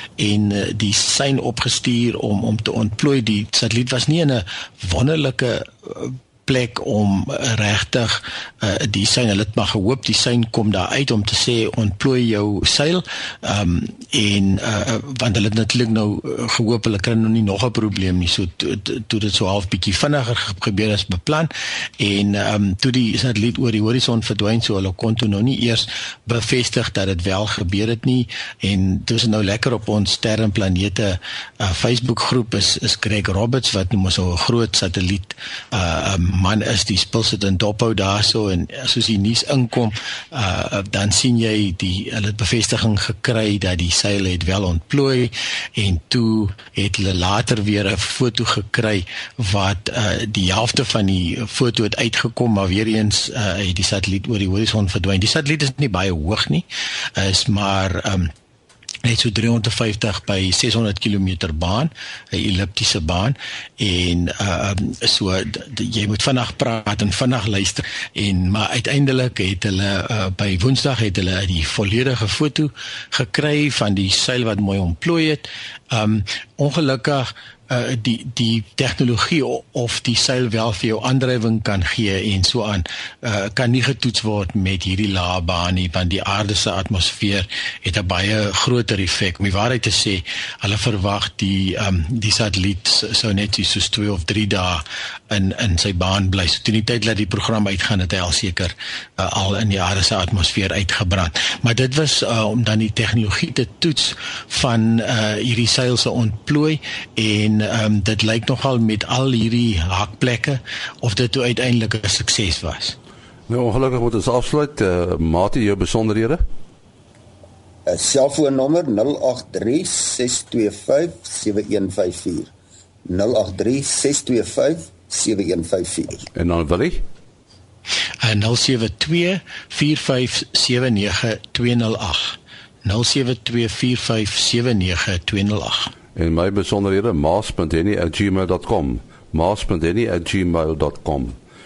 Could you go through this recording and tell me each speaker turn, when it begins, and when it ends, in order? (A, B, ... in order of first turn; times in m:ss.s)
0:00.2-0:58.3 A
0:59.0-1:53.0 A
1:53.5-1:56.4 B
1:57.9-2:02.5 C
2:03.1-2:06.2 C
2:06.4-2:07.0 B
2:08.2-2:15.9 A
2:16.2-2:21.4 B